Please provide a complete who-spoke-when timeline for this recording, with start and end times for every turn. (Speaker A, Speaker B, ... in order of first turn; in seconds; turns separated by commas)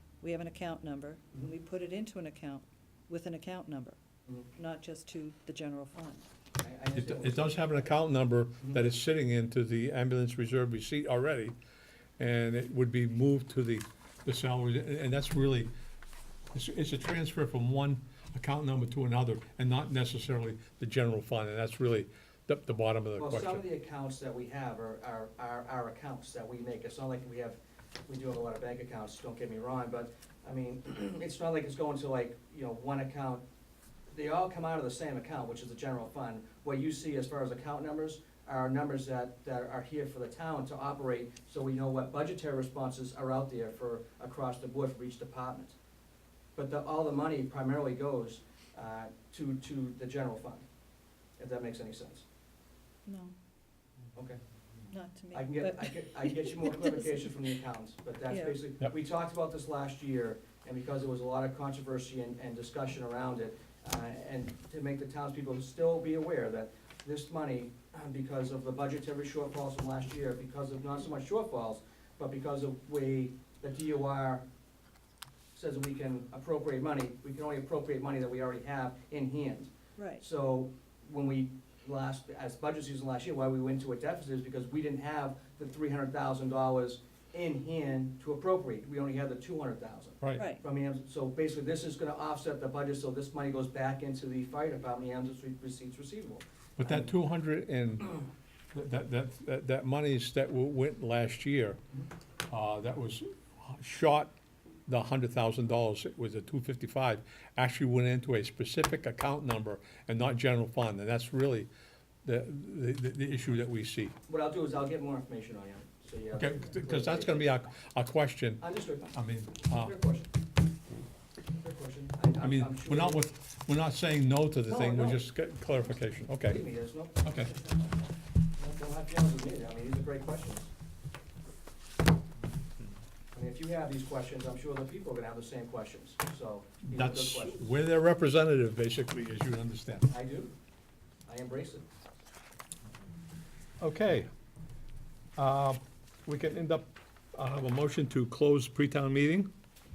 Speaker A: 0.2-4.0, Speaker A: 4.5-6.2, Speaker B: 6.6-7.8, Speaker C: 7.0-11.6, Speaker C: 12.2-15.7, Speaker C: 16.5-23.6, Speaker B: 23.2-33.4, Speaker B: 34.1-45.8, Speaker B: 46.6-50.6, Speaker B: 51.4-52.2, Speaker A: 53.1-53.4, Speaker B: 54.1-54.4, Speaker A: 54.9-57.3, Speaker B: 55.3-74.4, Speaker A: 58.3-58.6, Speaker B: 75.5-97.1, Speaker A: 80.0-80.2, Speaker C: 96.8-98.1, Speaker C: 98.7-101.8, Speaker C: 102.5-104.3, Speaker C: 104.9-111.7, Speaker C: 112.2-114.2, Speaker B: 114.3-117.5, Speaker C: 116.3-120.0, Speaker B: 118.6-119.1, Speaker B: 119.6-120.3, Speaker B: 121.6-123.2, Speaker C: 122.4-126.7, Speaker B: 124.7-125.2, Speaker B: 126.4-127.5, Speaker C: 127.2-127.5, Speaker B: 128.6-130.7, Speaker B: 133.3-137.7, Speaker C: 136.9-140.1, Speaker B: 140.1-140.5, Speaker B: 141.3-141.8, Speaker C: 143.8-144.3, Speaker C: 145.4-149.5